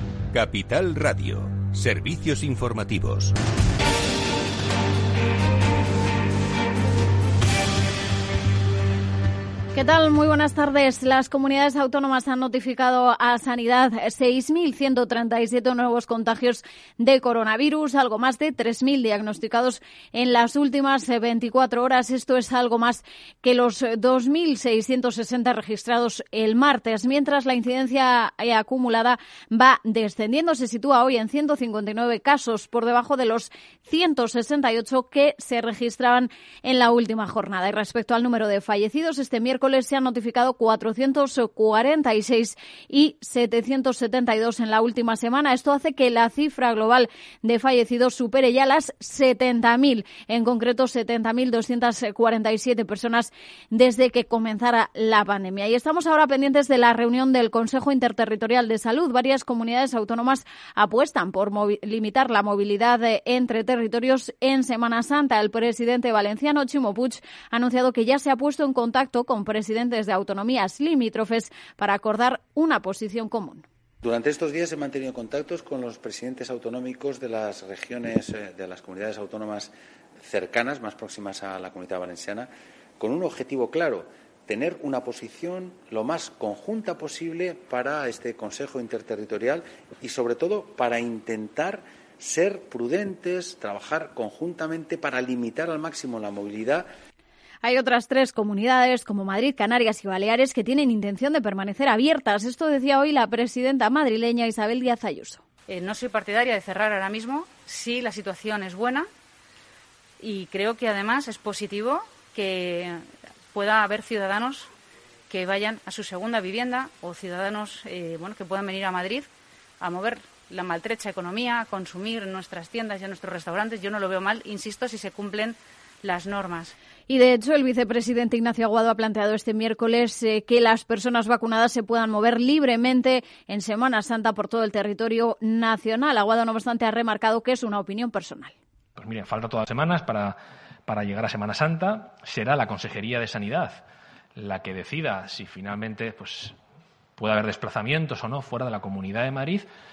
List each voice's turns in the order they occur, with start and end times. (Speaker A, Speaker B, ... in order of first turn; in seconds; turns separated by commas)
Speaker A: 0.3-3.4, Speaker B: 9.7-73.7, Speaker C: 74.0-96.9, Speaker B: 97.6-105.4, Speaker D: 105.7-109.1, Speaker D: 110.2-114.7, Speaker D: 115.3-119.3, Speaker D: 119.8-126.8, Speaker B: 127.1-138.5, Speaker E: 139.0-143.8, Speaker E: 144.3-146.6, Speaker E: 147.2-149.7